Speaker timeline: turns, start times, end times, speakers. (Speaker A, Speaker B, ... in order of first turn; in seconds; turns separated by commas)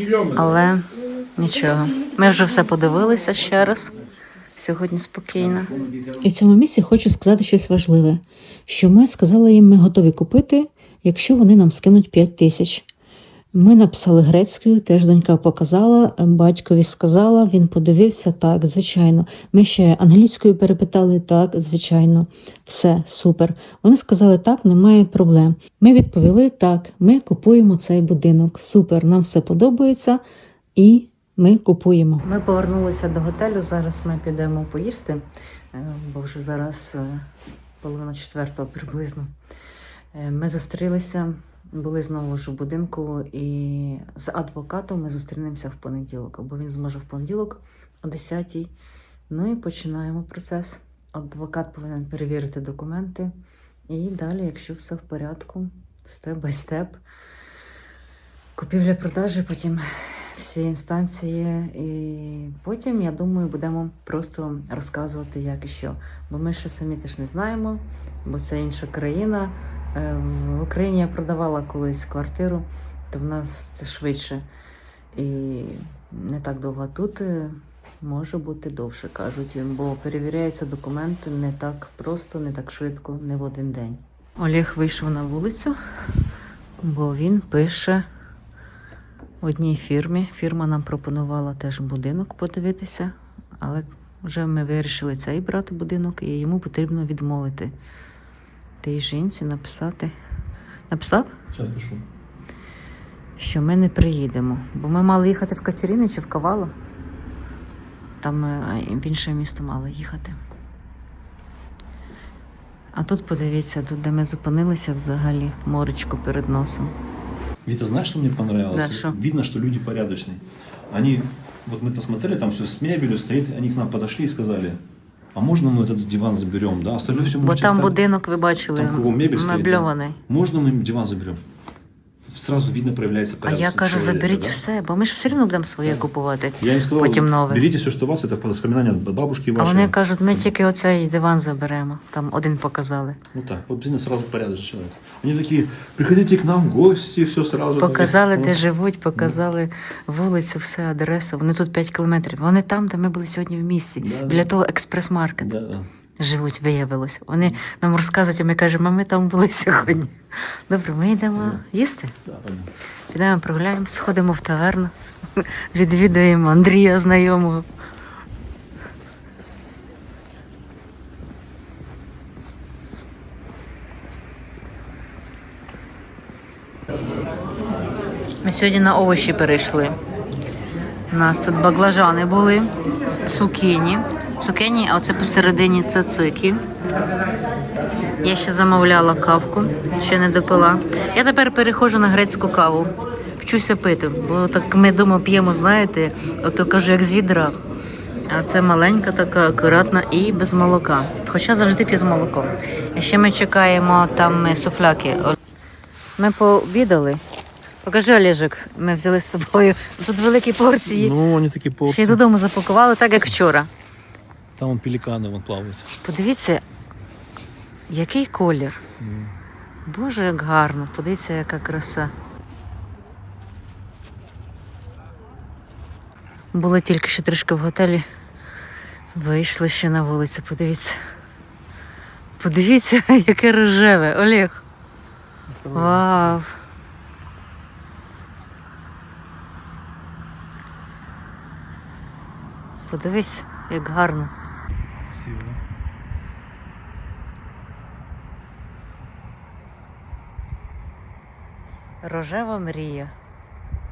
Speaker A: 0.3-3.9, Speaker A: 4.5-12.8, Speaker A: 13.5-30.2, Speaker A: 30.8-37.2, Speaker A: 37.8-39.3, Speaker A: 40.1-48.7, Speaker A: 49.3-53.3, Speaker A: 53.9-57.0, Speaker A: 58.5-74.4, Speaker A: 75.1-85.8, Speaker A: 86.8-88.0, Speaker A: 89.4-97.7, Speaker A: 98.8-100.1, Speaker A: 100.9-101.3, Speaker B: 101.5-102.0, Speaker A: 103.4-106.7, Speaker A: 108.2-110.4, Speaker A: 112.9-116.9, Speaker B: 117.6-124.8, Speaker A: 118.7-119.2, Speaker B: 125.3-128.0, Speaker A: 127.2-130.2, Speaker B: 128.7-131.4, Speaker B: 132.2-134.6, Speaker A: 133.4-137.6, Speaker B: 136.6-139.9, Speaker A: 139.6-143.2, Speaker B: 143.3-148.6, Speaker A: 147.8-155.5, Speaker B: 154.0-154.5, Speaker B: 155.4-155.9, Speaker A: 156.2-162.2, Speaker B: 162.2-162.7, Speaker A: 163.1-167.6, Speaker A: 178.4-179.9, Speaker A: 181.1-182.7, Speaker A: 183.2-186.6, Speaker A: 188.2-197.6, Speaker A: 198.3-205.3, Speaker A: 206.2-207.2, Speaker A: 207.8-211.2, Speaker B: 210.9-212.2, Speaker A: 211.8-213.7, Speaker B: 214.6-215.9, Speaker A: 216.0-216.6, Speaker A: 217.9-218.8, Speaker B: 219.0-219.3, Speaker A: 219.8-222.1, Speaker A: 226.5-228.0, Speaker A: 229.1-231.0, Speaker A: 232.4-234.6, Speaker B: 235.5-236.4, Speaker A: 235.7-236.6, Speaker A: 242.9-244.3, Speaker B: 245.1-245.6, Speaker A: 252.0-253.1